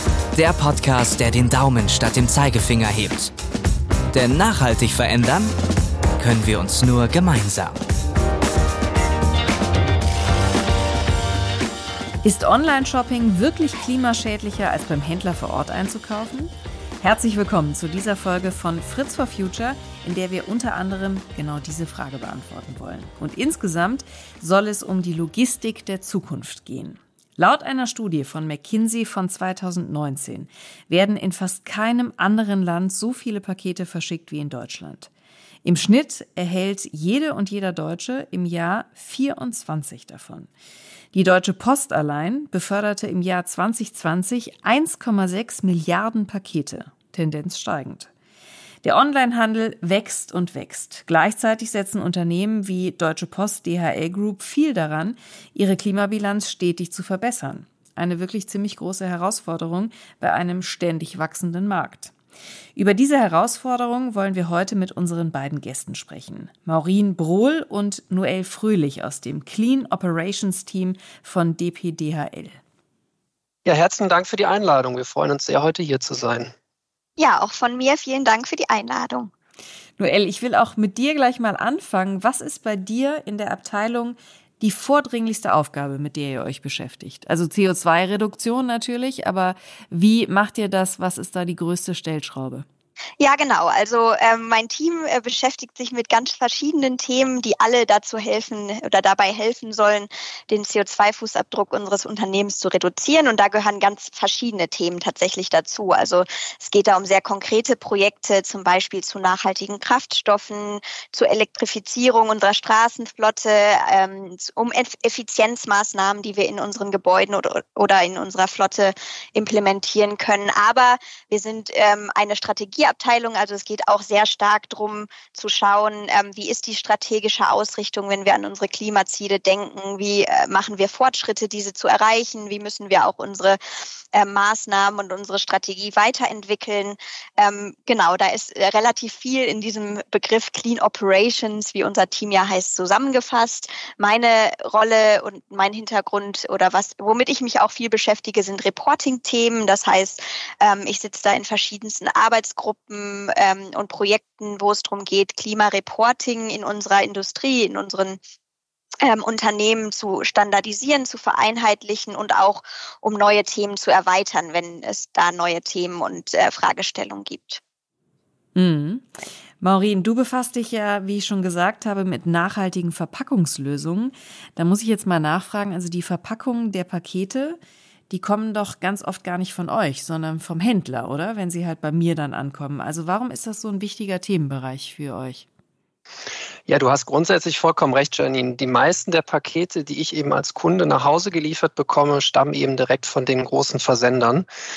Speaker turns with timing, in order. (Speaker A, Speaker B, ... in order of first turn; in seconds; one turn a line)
Speaker A: 0.3-3.3
Speaker A: 4.1-5.5
Speaker A: 6.2-7.8
Speaker B: 12.2-35.1
Speaker B: 35.6-40.5
Speaker B: 41.1-48.1
Speaker B: 48.8-62.1
Speaker B: 62.8-72.6
Speaker C: 73.7-76.5
Speaker D: 77.2-79.3
Speaker B: 80.0-92.7
Speaker D: 93.2-133.6
Speaker D: 134.1-158.2
Speaker D: 159.0-167.6
Speaker B: 168.6-177.6
Speaker B: 178.1-185.5
Speaker C: 186.7-194.5